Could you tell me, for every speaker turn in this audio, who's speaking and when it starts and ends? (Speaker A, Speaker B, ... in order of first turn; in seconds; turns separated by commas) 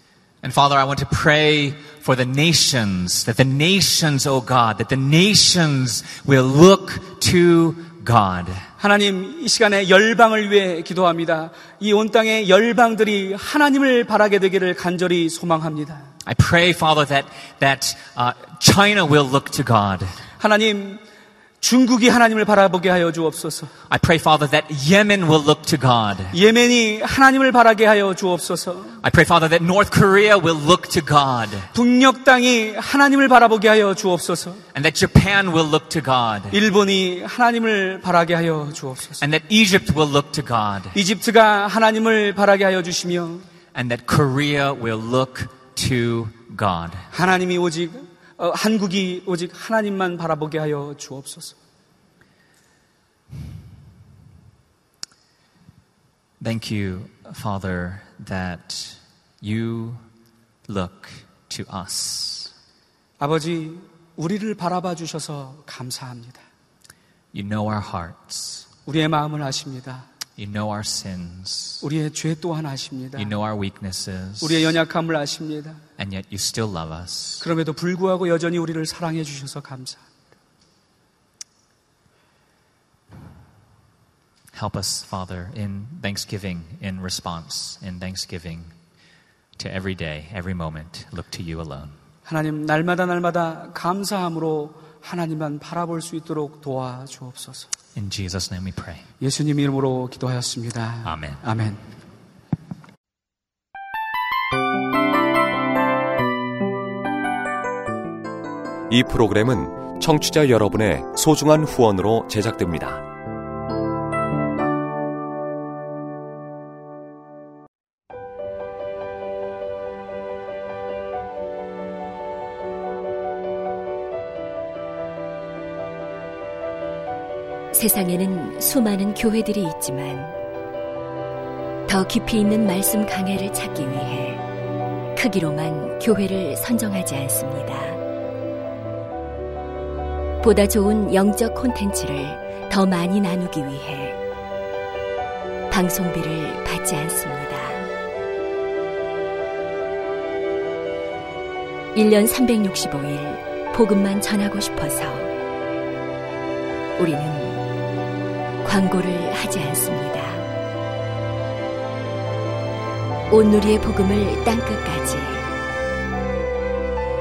Speaker A: 0.4-8.7, Speaker B: 8.8-16.1, Speaker A: 16.2-20.1, Speaker B: 20.4-21.0, Speaker B: 21.6-23.7, Speaker A: 23.9-26.3, Speaker B: 26.3-29.0, Speaker A: 29.0-31.7, Speaker B: 31.7-34.6, Speaker A: 34.7-36.6, Speaker B: 36.5-39.2, Speaker A: 39.2-41.0, Speaker B: 40.9-43.4, Speaker A: 43.7-47.1, Speaker B: 47.1-51.5, Speaker A: 56.4-60.0, Speaker A: 60.7-62.5, Speaker B: 63.2-66.4, Speaker A: 67.3-68.7, Speaker B: 68.8-70.0, Speaker A: 70.4-71.8, Speaker B: 71.8-73.3, Speaker A: 73.2-74.7, Speaker B: 74.4-75.8, Speaker A: 76.0-77.4, Speaker B: 77.4-80.0, Speaker A: 84.5-88.7, Speaker A: 89.6-91.9, Speaker B: 92.2-97.7, Speaker A: 97.9-99.0, Speaker B: 99.2-101.8, Speaker A: 101.0-101.4, Speaker C: 108.9-113.0, Speaker D: 127.7-130.3, Speaker D: 131.9-134.4, Speaker D: 135.2-138.0, Speaker D: 140.4-144.2, Speaker D: 145.7-147.8, Speaker D: 151.9-155.3, Speaker D: 157.0-157.7, Speaker D: 158.6-160.5, Speaker D: 163.3-165.5